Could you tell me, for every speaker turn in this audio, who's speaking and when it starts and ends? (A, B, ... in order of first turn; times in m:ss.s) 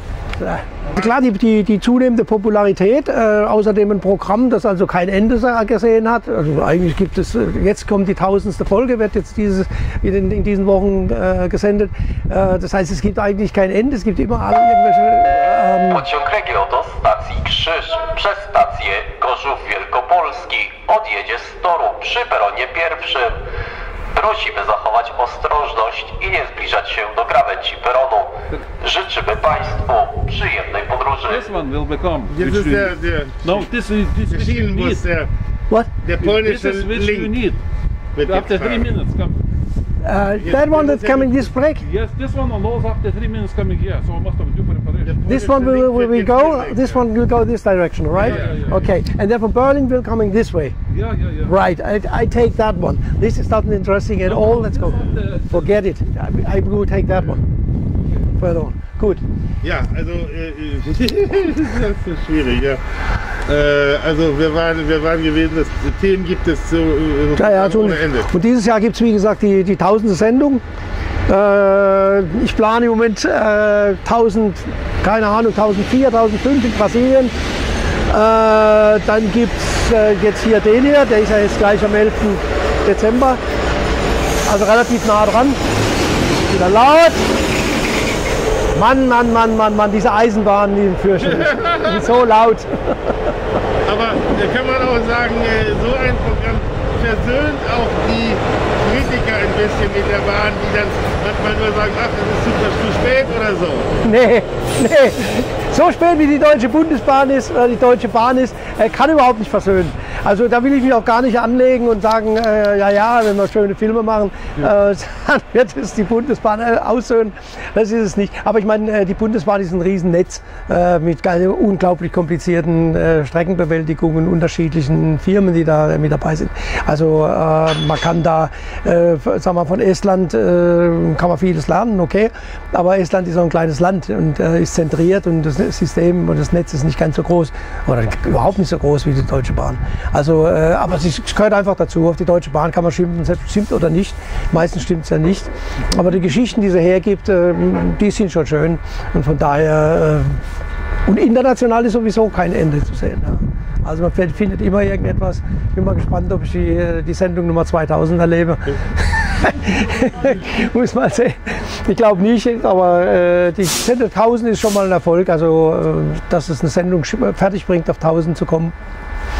0:00.4-0:16.0 A
0:15.9-0:23.4 B
0:24.1-0:31.4 B
0:31.3-0:35.0 C
0:32.3-0:33.7 D
0:34.2-0:35.3 D
0:36.0-0:37.4 D
0:36.2-0:37.6 C
0:38.2-0:39.0 D
0:38.2-0:39.4 C
0:40.0-0:41.8 A
0:40.4-0:41.5 D
0:41.8-0:45.2 C
0:45.0-0:47.0 D
0:45.2-0:50.7 A
0:48.1-0:48.8 D
0:48.2-0:48.8 C
0:50.9-0:51.6 C
0:51.4-0:57.4 A
0:54.2-0:55.8 C
0:58.4-0:59.2 A
0:59.6-1:08.3 D
1:07.4-1:10.6 A
1:11.3-1:17.3 A
1:18.1-1:23.4 A
1:24.4-1:25.6 A
1:26.4-1:27.3 A
1:28.7-1:33.1 A
1:31.2-1:32.2 D
1:33.8-1:43.9 D
1:44.0-2:30.4 A
2:31.0-2:48.7 A